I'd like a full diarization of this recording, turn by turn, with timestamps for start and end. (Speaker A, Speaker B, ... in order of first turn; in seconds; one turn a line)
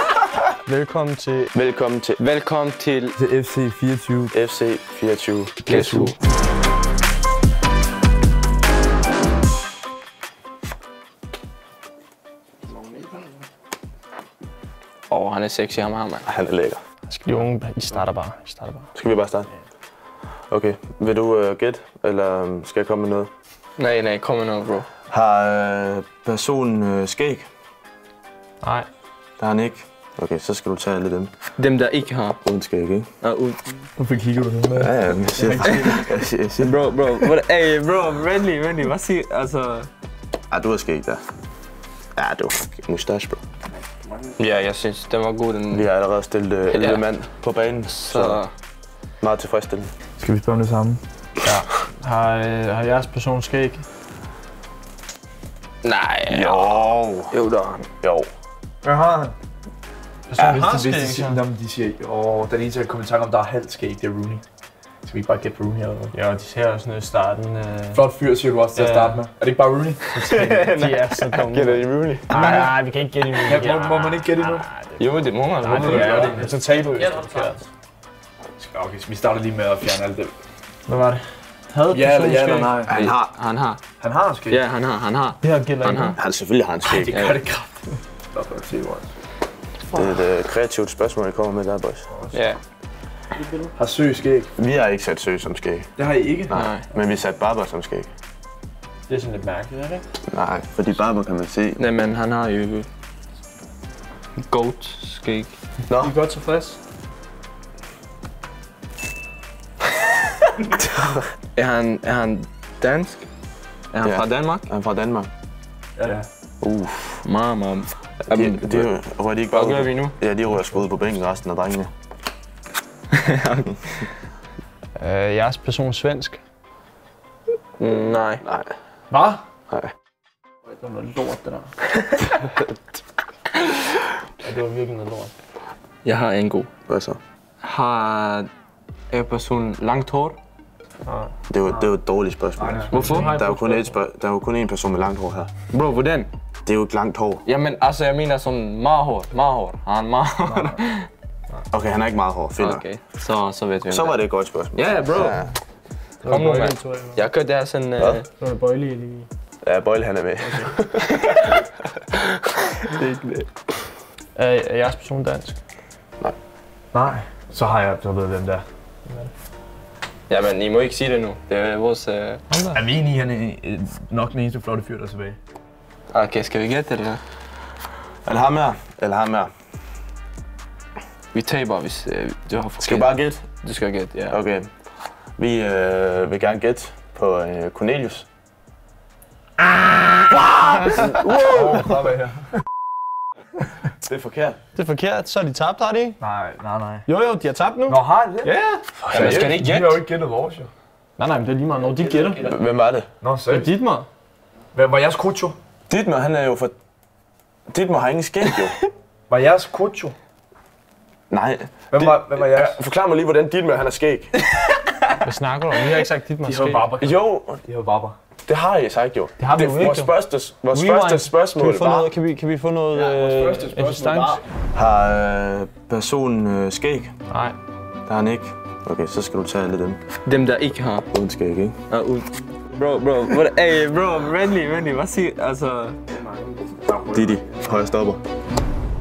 Speaker A: 0.6-1.5
Speaker B: 1.5-2.2
Speaker C: 2.2-3.1
Speaker D: 3.1-4.3
Speaker B: 4.3-5.7
Speaker C: 5.7-6.2
Speaker D: 5.7-6.1
Speaker C: 15.1-16.3
Speaker B: 16.2-16.8
Speaker A: 17.1-18.9
Speaker B: 18.9-19.5
Speaker B: 20.5-23.3
Speaker C: 23.8-24.9
Speaker B: 25.1-27.4
Speaker A: 28.6-28.9
Speaker B: 29.4-31.3
Speaker C: 31.6-32.4
Speaker B: 32.4-33.1
Speaker C: 33.2-33.9
Speaker D: 34.0-36.1
Speaker B: 34.8-36.8
Speaker C: 36.6-39.9
Speaker B: 40.5-41.2
Speaker B: 42.2-43.4
Speaker C: 44.4-45.9
Speaker B: 45.7-48.4
Speaker C: 46.7-47.0
Speaker C: 47.9-48.5
Speaker B: 49.2-49.9
Speaker D: 50.2-51.0
Speaker A: 51.4-53.8
Speaker C: 55.8-57.9
Speaker B: 56.3-57.3
Speaker B: 58.0-58.3
Speaker D: 58.8-59.3
Speaker A: 60.3-61.4
Speaker D: 60.4-64.4
Speaker D: 65.0-66.1
Speaker A: 66.1-68.0
Speaker D: 67.9-70.6
Speaker A: 68.7-69.2
Speaker C: 70.2-72.7
Speaker A: 70.6-75.0
Speaker B: 71.6-72.7
Speaker D: 73.4-74.7
Speaker C: 75.0-76.4
Speaker A: 75.6-77.7
Speaker D: 75.7-76.6
Speaker D: 78.6-80.3
Speaker A: 80.9-82.8
Speaker D: 81.9-82.9
Speaker B: 82.9-83.3
Speaker C: 82.9-83.8
Speaker D: 84.0-84.6
Speaker C: 84.5-86.2
Speaker A: 85.4-86.2
Speaker B: 86.2-87.2
Speaker D: 86.9-89.0
Speaker C: 87.1-87.4
Speaker B: 89.9-92.1
Speaker D: 92.1-92.4
Speaker C: 92.3-92.6
Speaker D: 93.7-94.5
Speaker B: 94.6-95.9
Speaker D: 96.0-96.6
Speaker B: 96.5-98.1
Speaker C: 96.5-96.8
Speaker A: 99.1-100.0
Speaker B: 100.3-101.8
Speaker C: 101.8-102.8
Speaker C: 104.4-105.5
Speaker B: 105.9-106.1
Speaker A: 106.0-106.8
Speaker C: 111.5-113.2
Speaker C: 113.9-114.7
Speaker B: 114.0-115.3
Speaker D: 116.0-116.2
Speaker B: 116.6-117.2
Speaker C: 117.2-118.9
Speaker B: 118.3-121.9
Speaker C: 119.5-120.2
Speaker C: 123.1-124.1
Speaker A: 125.0-126.4
Speaker C: 127.8-128.4
Speaker B: 128.4-128.7
Speaker A: 129.1-129.4
Speaker A: 130.8-131.7
Speaker A: 134.4-135.3
Speaker C: 136.0-136.7
Speaker B: 136.9-137.2
Speaker C: 137.6-138.5
Speaker C: 139.1-140.4
Speaker A: 141.0-141.3
Speaker B: 141.5-145.5
Speaker D: 142.6-143.1
Speaker C: 142.9-143.4
Speaker A: 142.9-144.0
Speaker C: 145.7-146.3
Speaker B: 146.6-147.4
Speaker C: 147.4-151.1
Speaker B: 151.7-152.8
Speaker C: 152.6-154.2
Speaker B: 153.9-155.5
Speaker C: 154.7-155.4
Speaker A: 156.2-157.2
Speaker C: 156.2-158.2
Speaker A: 158.4-159.3
Speaker B: 159.6-161.0
Speaker C: 161.0-161.6
Speaker C: 162.9-163.3
Speaker A: 164.3-165.6
Speaker D: 166.9-168.6
Speaker C: 170.3-172.4
Speaker A: 172.5-172.8
Speaker D: 172.7-175.4
Speaker C: 176.1-177.2
Speaker B: 178.2-179.5
Speaker C: 181.3-184.4
Speaker B: 182.8-183.4
Speaker B: 184.3-184.7
Speaker B: 185.4-188.2
Speaker A: 189.7-192.0
Speaker D: 191.4-192.5
Speaker B: 194.0-194.6
Speaker A: 194.8-196.2
Speaker D: 196.2-197.1
Speaker A: 197.1-198.0
Speaker D: 197.9-198.5
Speaker C: 198.4-200.0
Speaker D: 199.1-200.7
Speaker A: 201.2-202.5
Speaker B: 202.4-203.1
Speaker D: 203.2-203.7
Speaker A: 203.5-204.0
Speaker D: 204.7-205.6
Speaker B: 205.9-206.7
Speaker B: 207.7-208.8
Speaker D: 209.3-210.2
Speaker B: 211.3-214.3
Speaker D: 211.9-212.8
Speaker C: 214.5-215.2
Speaker A: 215.2-216.9
Speaker D: 216.4-218.2
Speaker B: 217.0-217.6
Speaker B: 218.5-222.1
Speaker A: 219.4-220.1
Speaker A: 220.7-224.4
Speaker D: 222.9-224.4
Speaker B: 224.7-227.1
Speaker A: 227.3-227.6
Speaker B: 228.1-230.0
Speaker C: 230.2-231.1
Speaker B: 231.1-231.8
Speaker C: 231.9-236.0
Speaker B: 237.0-238.2